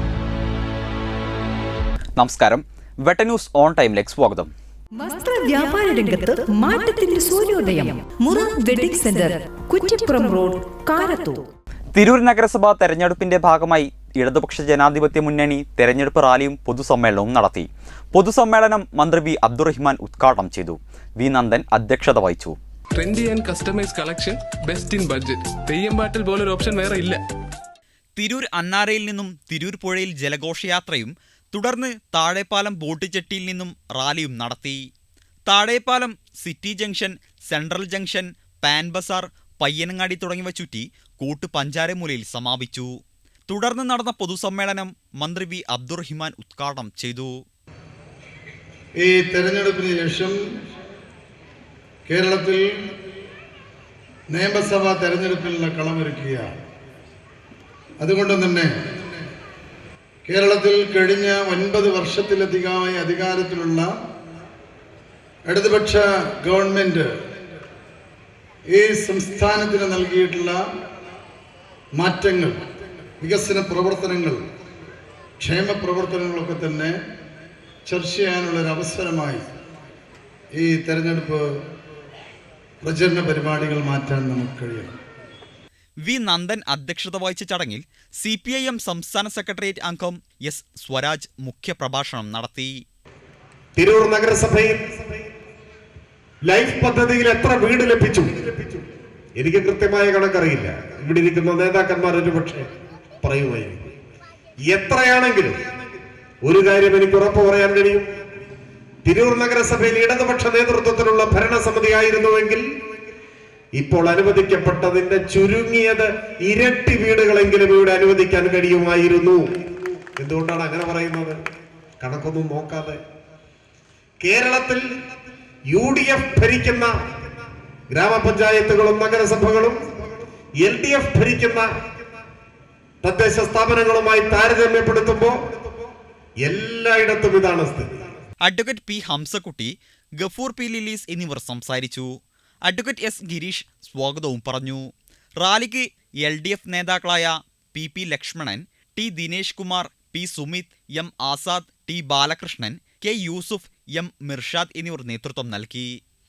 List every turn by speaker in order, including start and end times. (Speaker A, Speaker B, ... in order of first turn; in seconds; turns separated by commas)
Speaker A: 2.1-4.5, Speaker B: 5.0-11.5, Speaker A: 11.9-22.6, Speaker C: 22.9-27.2, Speaker A: 28.1-34.9, Speaker A: 35.5-42.9, Speaker A: 43.5-47.4, Speaker D: 49.0-50.4, Speaker D: 52.1-52.9, Speaker D: 54.3-56.5, Speaker D: 58.0-59.1, Speaker D: 60.3-63.9, Speaker D: 65.5-67.1, Speaker D: 68.7-70.6, Speaker D: 72.0-72.5, Speaker D: 73.2-74.4, Speaker D: 75.4-76.9, Speaker D: 77.9-79.4, Speaker D: 80.6-81.4, Speaker D: 82.8-84.9, Speaker A: 86.0-92.8, Speaker E: 93.8-95.2, Speaker E: 96.5-98.8, Speaker E: 99.4-103.9, Speaker E: 104.6-105.7, Speaker E: 106.4-108.1, Speaker E: 109.0-112.6, Speaker E: 113.8-119.5, Speaker E: 120.2-121.4, Speaker E: 122.0-123.0, Speaker E: 124.2-124.9, Speaker E: 125.7-127.3, Speaker E: 127.9-129.8, Speaker E: 130.6-131.7, Speaker E: 133.0-135.5, Speaker E: 136.4-138.1, Speaker A: 138.4-142.1, Speaker A: 142.7-144.9, Speaker A: 145.4-155.9